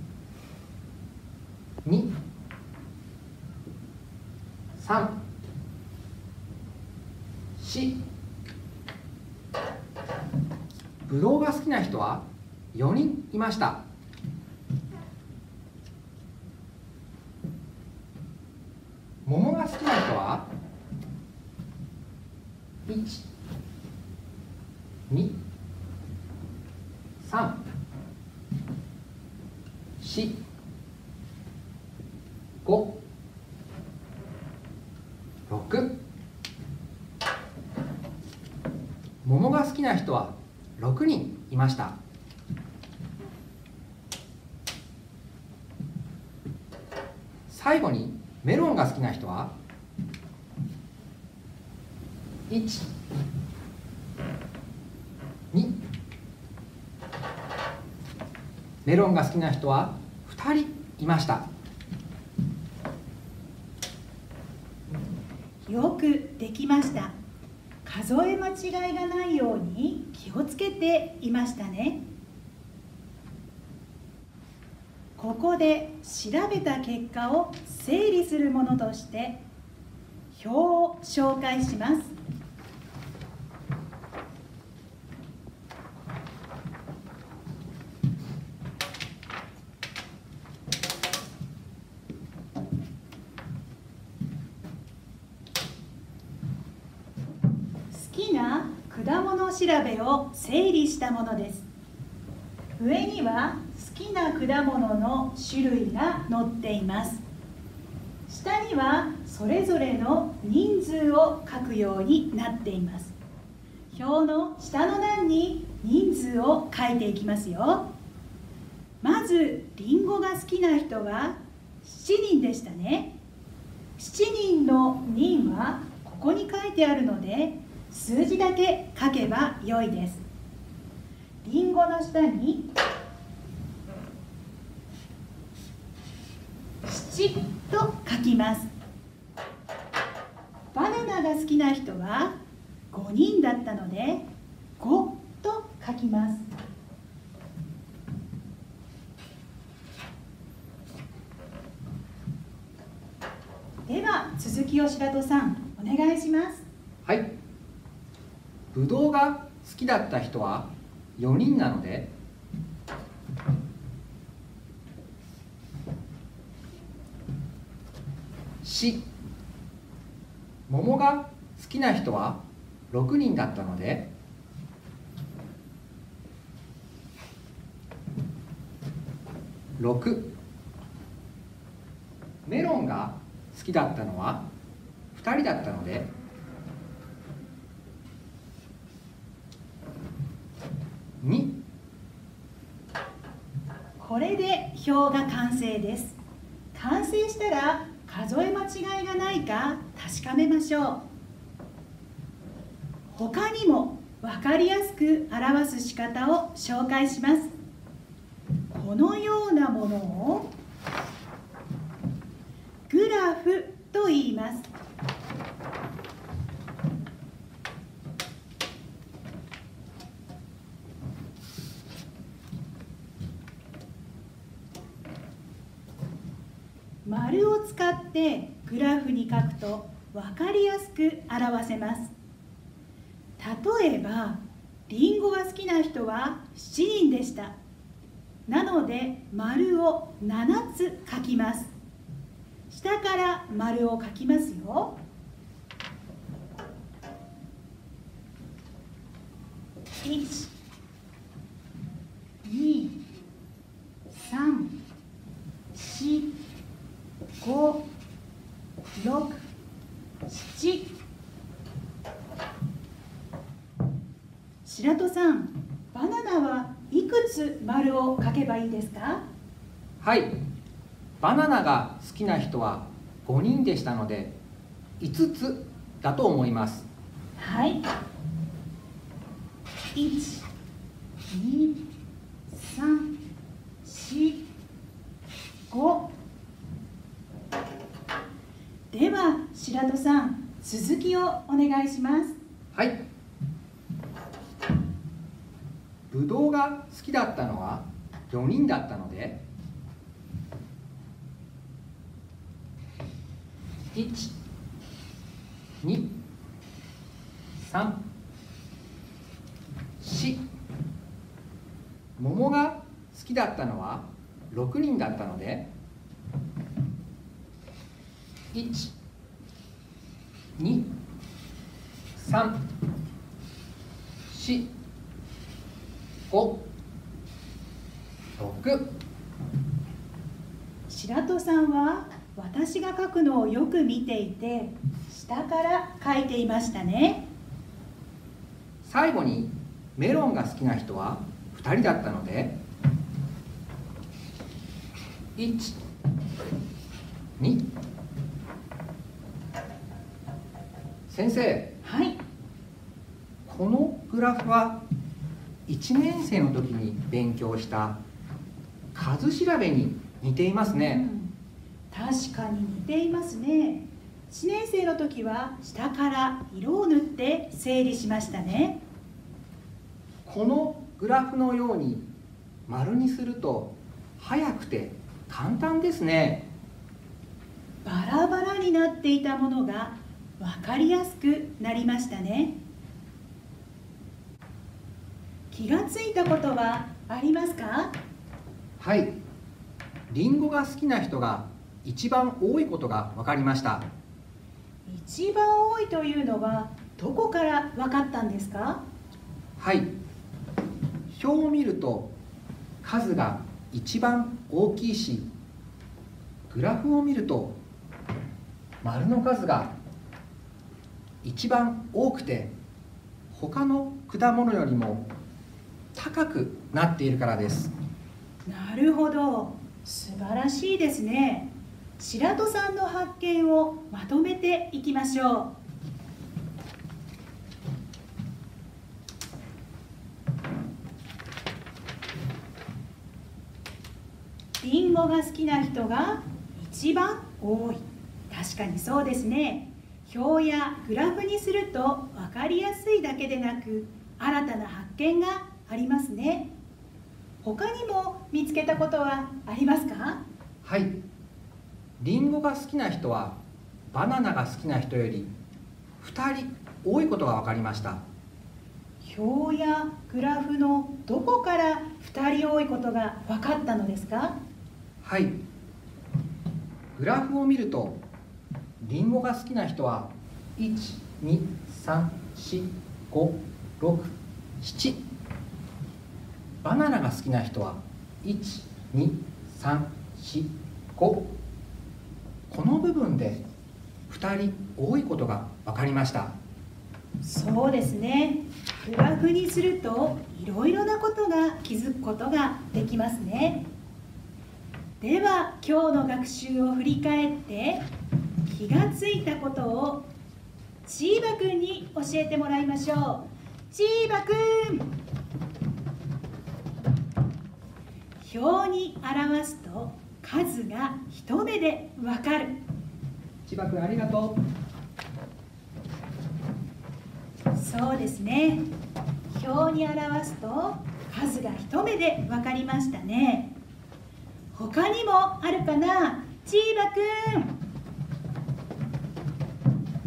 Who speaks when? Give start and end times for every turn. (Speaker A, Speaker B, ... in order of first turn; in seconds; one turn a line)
Speaker A: 1.8-2.1
Speaker A: 4.8-5.2
Speaker A: 7.6-8.0
Speaker A: 11.1-13.8
Speaker A: 19.2-20.5
Speaker A: 22.9-23.2
Speaker A: 25.1-25.4
Speaker A: 27.2-27.6
Speaker A: 30.0-30.4
Speaker A: 32.6-33.0
Speaker A: 35.5-36.0
Speaker A: 39.2-42.0
Speaker A: 47.5-49.5
Speaker A: 52.5-52.9
Speaker A: 55.5-55.8
Speaker A: 58.9-61.5
Speaker B: 65.6-67.2
Speaker B: 67.8-72.0
Speaker B: 75.2-79.4
Speaker B: 80.3-82.1
Speaker B: 97.9-101.7
Speaker B: 102.8-107.2
Speaker B: 108.3-113.2
Speaker B: 113.9-117.9
Speaker B: 119.0-123.2
Speaker B: 124.0-130.2
Speaker B: 131.4-132.7
Speaker B: 136.8-138.7
Speaker B: 140.7-142.4
Speaker B: 142.9-144.3
Speaker B: 144.8-146.5
Speaker B: 153.9-156.7
Speaker A: 157.1-157.3
Speaker A: 158.7-162.1
Speaker A: 168.6-169.1
Speaker A: 170.7-174.1
Speaker A: 179.8-180.3
Speaker A: 182.5-184.5
Speaker A: 185.1-186.1
Speaker A: 191.2-191.6
Speaker B: 194.0-196.2
Speaker B: 196.7-201.0
Speaker B: 203.1-207.5
Speaker B: 208.7-210.5
Speaker B: 212.9-214.7
Speaker B: 227.1-232.1
Speaker B: 233.4-237.6
Speaker B: 238.5-241.7
Speaker B: 242.7-245.0
Speaker B: 250.0-250.5
Speaker B: 252.4-253.0
Speaker B: 254.1-254.8
Speaker B: 255.7-256.4
Speaker B: 257.4-257.8
Speaker B: 259.0-259.4
Speaker B: 260.3-260.9
Speaker B: 264.6-269.2
Speaker A: 270.0-270.4
Speaker A: 271.2-274.4
Speaker A: 275.0-276.9
Speaker B: 277.4-277.8
Speaker B: 279.9-280.4
Speaker B: 281.3-281.8
Speaker B: 282.5-283.1
Speaker B: 283.8-284.4
Speaker B: 285.7-286.1
Speaker B: 288.9-292.4
Speaker A: 292.7-293.0
Speaker A: 296.1-299.4
Speaker A: 303.9-304.3
Speaker A: 305.8-306.2
Speaker A: 307.6-308.0
Speaker A: 310.0-310.4
Speaker A: 312.2-315.7
Speaker A: 318.5-318.9
Speaker A: 320.6-320.9
Speaker A: 322.2-322.6
Speaker A: 324.3-324.7
Speaker A: 326.3-326.6
Speaker A: 328.4-328.9
Speaker B: 330.9-337.2
Speaker A: 338.8-342.6
Speaker A: 345.4-345.8
Speaker A: 347.4-347.7
Speaker A: 351.1-351.7
Speaker B: 351.8-352.2
Speaker A: 353.5-354.8
Speaker A: 355.7-358.0
Speaker A: 358.9-361.0
Speaker B: 360.8-361.4
Speaker B: 361.9-368.8
Speaker A: 370.2-372.1
Speaker A: 372.7-376.5
Speaker B: 377.8-382.6
Speaker B: 385.5-387.9
Speaker A: 388.8-389.1
Speaker A: 390.1-393.9
Speaker B: 394.9-398.8
Speaker A: 399.6-399.9
Speaker A: 401.1-402.1
Speaker A: 402.8-405.3
Speaker A: 406.5-407.6
Speaker A: 408.8-409.7
Speaker A: 411.2-412.5
Speaker A: 413.3-415.1
Speaker A: 415.9-417.7
Speaker B: 418.5-425.5
Speaker B: 434.6-446.5
Speaker B: 447.4-450.2
Speaker A: 450.6-451.0
Speaker A: 452.0-453.4
Speaker A: 453.9-455.3
Speaker A: 456.0-458.0
Speaker B: 459.0-464.4
Speaker A: 465.0-465.4
Speaker A: 466.9-468.0
Speaker A: 468.8-475.0
Speaker A: 476.6-481.3
Speaker A: 482.5-483.4
Speaker A: 484.1-486.3
Speaker B: 487.2-493.6
Speaker B: 495.0-497.8
Speaker B: 498.5-500.1
Speaker B: 500.9-504.9
Speaker B: 508.2-512.6
Speaker A: 513.5-514.4
Speaker B: 517.5-518.7
Speaker B: 519.3-523.5
Speaker B: 524.5-527.5